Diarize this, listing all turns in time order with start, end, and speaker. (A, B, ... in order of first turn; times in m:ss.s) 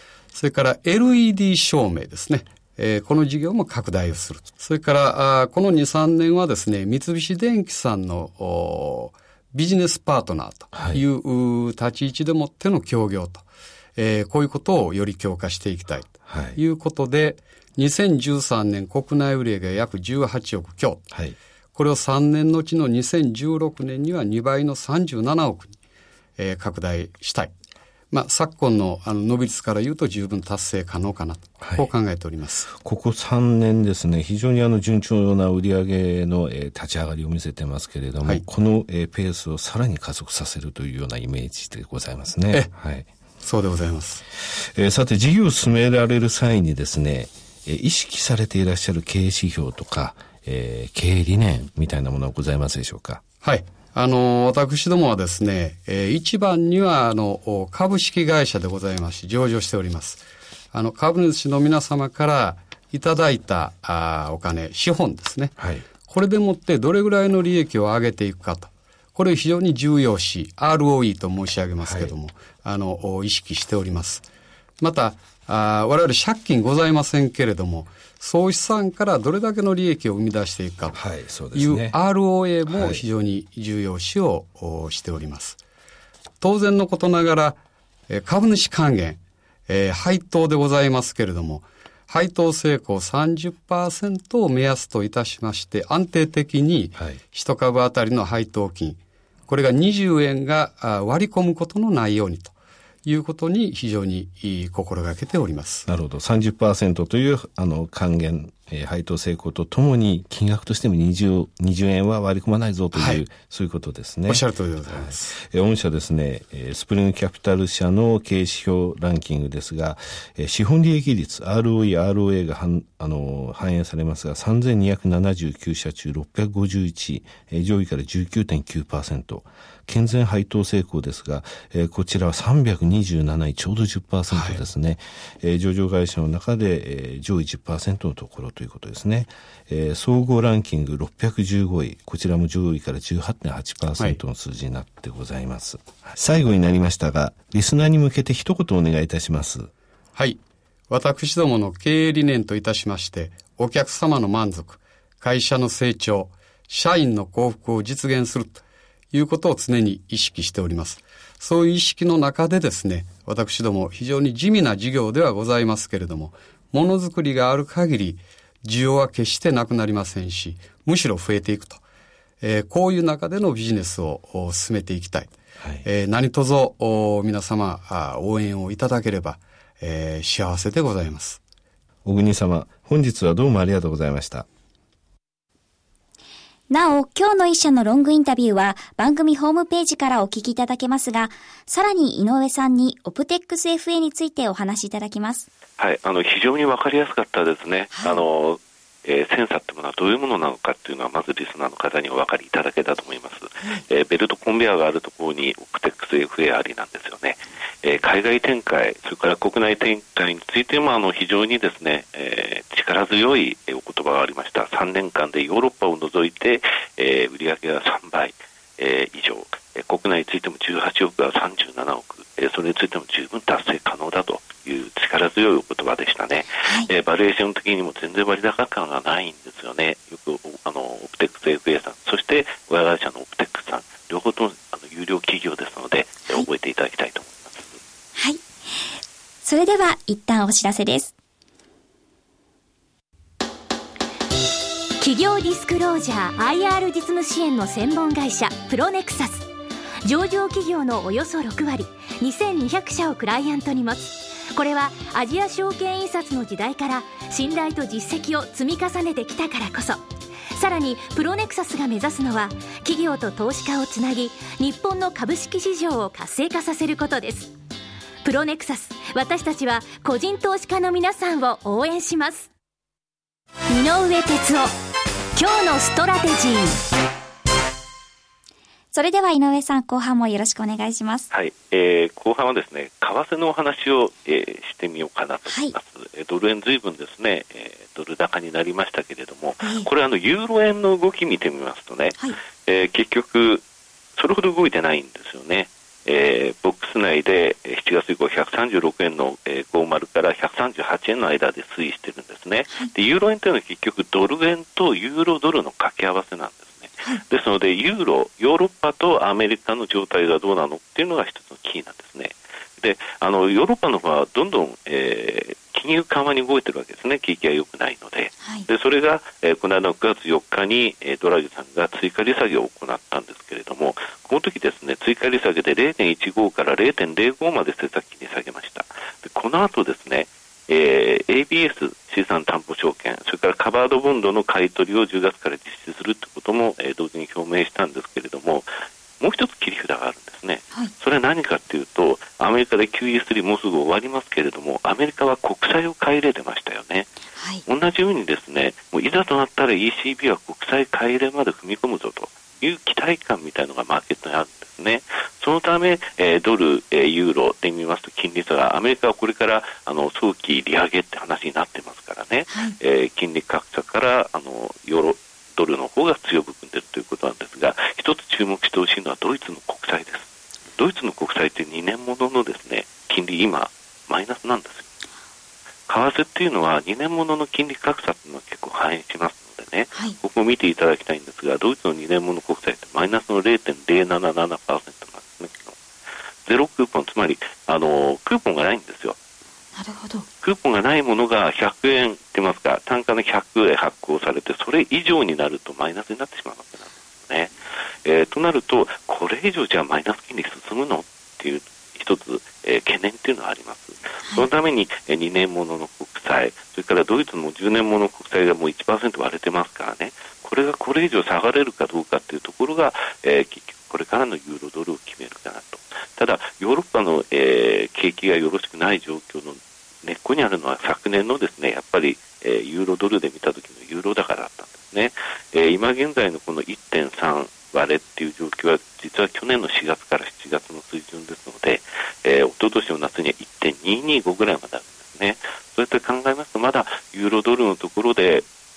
0:00.3-0:13.4 A
0:10.7-0:11.0 B
0:14.0-0:21.0 A
0:16.3-0:16.6 B
0:21.1-0:21.4 B
0:21.7-0:25.8 A
0:26.4-0:27.5 A
0:28.1-0:32.7 A
0:31.6-0:31.9 B
0:32.8-0:43.1 B
0:43.4-0:44.2 A
0:44.5-0:53.2 B
0:53.4-1:14.3 A
1:05.6-1:05.9 B
1:11.8-1:12.1 B
1:14.8-1:21.0 A
1:20.9-1:22.0 B
1:21.5-1:25.6 A
1:22.7-1:23.0 B
1:26.4-1:42.5 A
1:43.0-1:45.9 A
1:45.9-2:29.7 B
1:52.9-1:53.2 A
1:54.3-1:55.3 A
2:14.3-2:14.6 A
2:30.2-2:51.8 A
2:52.4-3:01.4 A
3:02.0-3:04.5 B
3:06.7-3:15.5 C
3:15.8-3:57.7 D
3:58.2-3:58.4 C
3:59.4-4:01.1 C
4:05.0-4:09.5 E
4:10.0-4:20.0 E
4:20.5-4:27.5 E
4:28.2-4:32.5 E
4:33.7-4:34.7 E
4:35.4-4:36.8 E
4:38.9-4:41.3 C
4:41.3-4:53.6 D
4:45.5-4:45.8 C
4:49.6-4:49.9 C
4:54.2-5:38.7 D
5:39.2-5:47.1 D
5:47.6-6:14.9 D
6:15.9-6:25.8 D
6:26.4-6:29.2 D
6:30.4-6:37.5 D
6:38.0-7:18.5 D